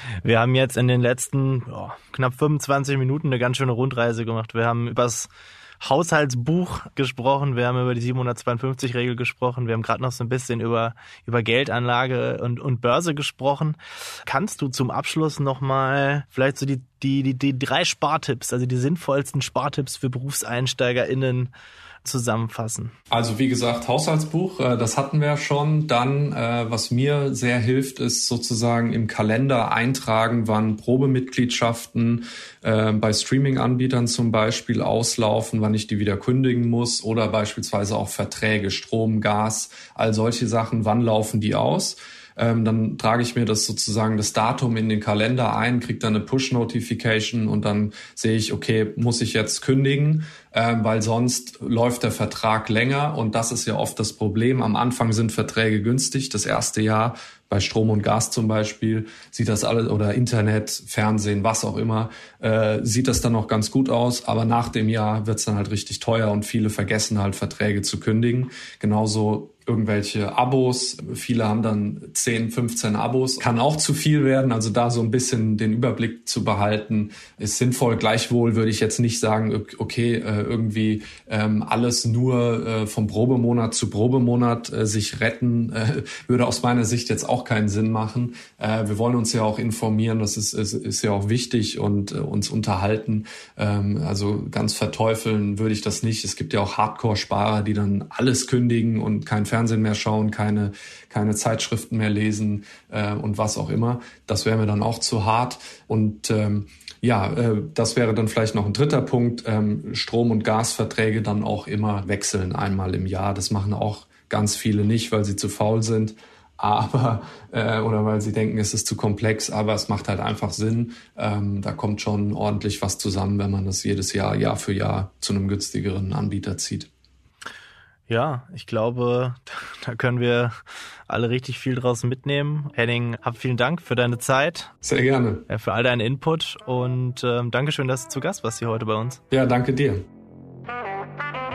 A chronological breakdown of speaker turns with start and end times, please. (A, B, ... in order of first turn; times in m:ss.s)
0:00.2-0:05.3 A
0:05.8-0:21.5 A
0:22.0-0:22.9 A
0:23.1-2:06.9 B
2:08.1-2:10.5 A
2:11.1-2:14.7 A
2:14.8-2:15.5 B
2:15.5-2:19.2 A
2:19.3-2:20.0 B